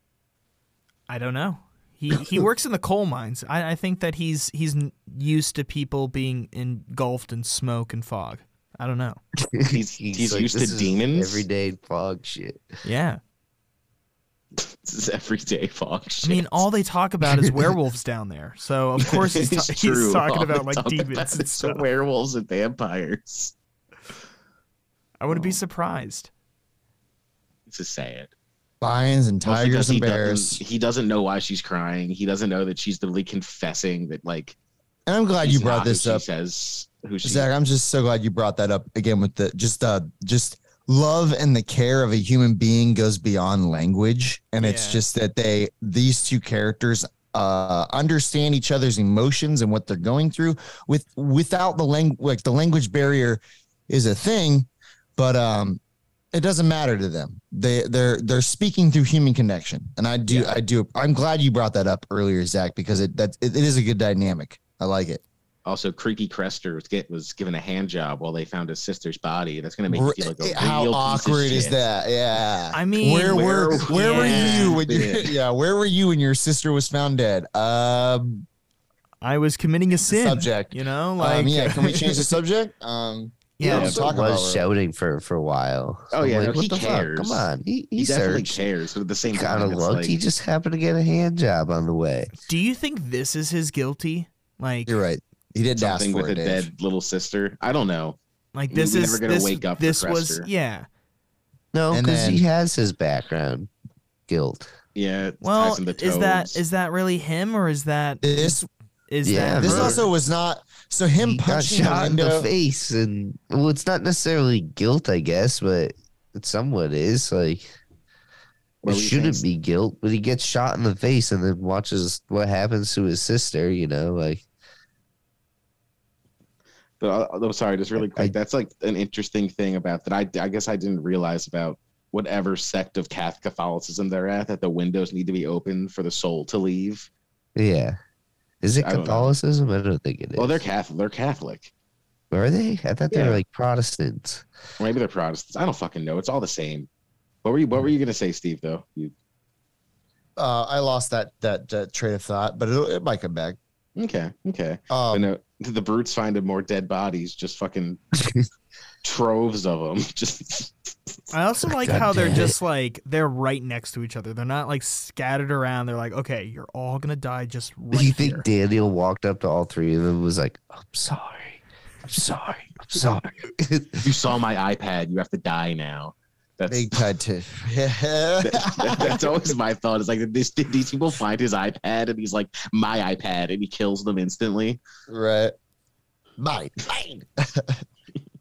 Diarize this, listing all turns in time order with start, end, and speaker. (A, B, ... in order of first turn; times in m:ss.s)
0:01.1-0:09.2 A
0:09.5-0:12.7 B
0:09.7-0:11.4 C
0:12.8-0:13.2 A
0:14.6-0:16.6 C
0:16.2-0:21.8 A
0:19.0-0:23.5 C
0:25.2-0:26.3 A
0:25.3-0:25.6 C
0:27.7-0:28.3 C
0:28.8-0:30.6 D
0:29.4-0:34.6 C
0:35.1-0:36.2 D
0:35.4-0:37.5 C
0:37.2-0:55.8 D
0:44.6-0:45.0 A
0:56.3-1:05.2 D
1:00.3-1:00.6 C
1:05.6-1:11.8 C
1:09.9-1:18.4 D
1:12.7-1:14.9 A
1:13.2-1:15.4 C
1:19.2-1:22.4 A
1:20.0-1:24.6 D
1:23.6-1:24.0 A
1:23.6-1:28.6 B
1:23.7-1:24.0 C
1:26.1-1:30.2 C
1:29.3-1:32.3 B
1:32.4-1:35.0 A
1:34.9-1:36.7 D
1:35.8-1:38.2 C
1:38.5-1:40.9 A
1:38.7-1:40.5 C
1:41.7-1:43.7 B
1:41.9-1:42.4 D
1:44.3-1:44.7 B
1:44.9-1:46.6 C
1:45.4-1:48.6 A
1:48.2-1:48.7 D
1:49.1-1:50.1 A
1:49.2-1:50.0 B
1:49.6-1:52.5 D
1:51.2-1:57.7 B
1:58.8-1:59.4 C
1:58.8-2:04.4 B
2:07.0-2:17.1 C
2:08.0-2:08.3 B
2:17.6-2:18.0 B
2:18.6-2:20.6 B
2:18.8-2:19.3 C
2:20.4-2:21.7 C
2:22.3-2:24.4 B
2:23.1-2:23.4 C
2:24.8-2:26.9 C
2:27.4-2:29.1 C
2:30.4-2:33.6 D
2:34.0-2:38.0 C
2:34.9-2:35.2 D
2:39.0-2:40.9 C
2:41.3-2:48.4 A
2:41.8-2:42.5 B
2:47.9-2:54.1 B
2:54.0-2:57.0 C
2:56.7-2:59.3 D
2:58.4-3:04.8 C
3:05.1-3:05.5 D
3:06.4-3:07.7 D